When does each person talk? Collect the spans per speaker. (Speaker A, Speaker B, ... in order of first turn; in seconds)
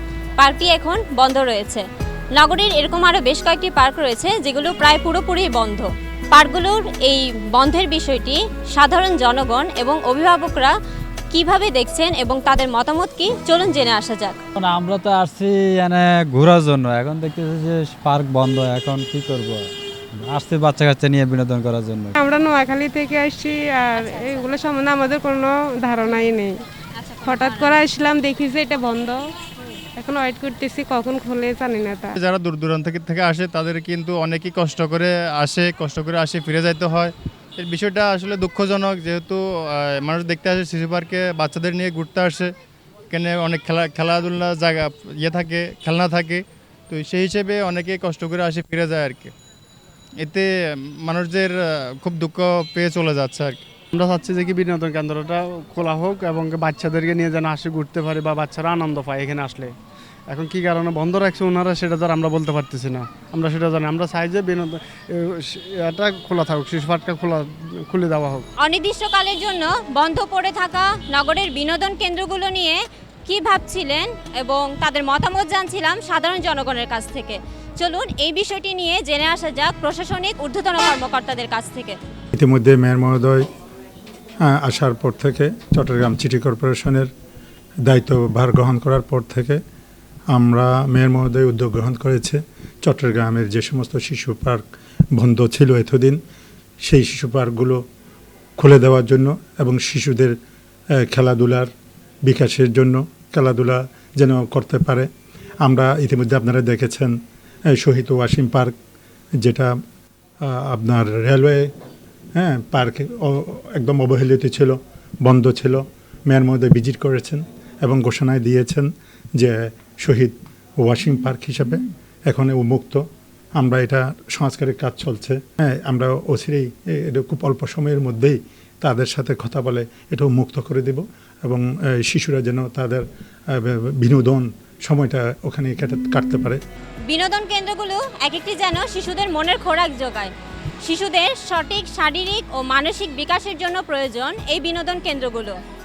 Speaker A: 0.4-10.8, 11.3-14.4, 23.9-24.5, 27.0-27.8, 68.6-82.0, 137.1-145.6
Speaker B: 14.6-22.1
Speaker C: 22.1-26.6, 27.2-29.2, 30.0-32.1
Speaker D: 32.1-42.5, 43.1-49.3, 50.2-53.6
Speaker E: 53.9-59.7, 60.3-68.5
Speaker F: 82.3-83.5, 84.4-87.1, 87.9-89.6, 90.3-94.6, 95.2-96.2, 96.8-97.8, 98.6-100.3, 101.0-101.7, 102.2-105.1, 105.6-107.2, 107.7-108.7, 109.4-109.7, 110.4-111.7, 112.4-123.0, 123.6-136.6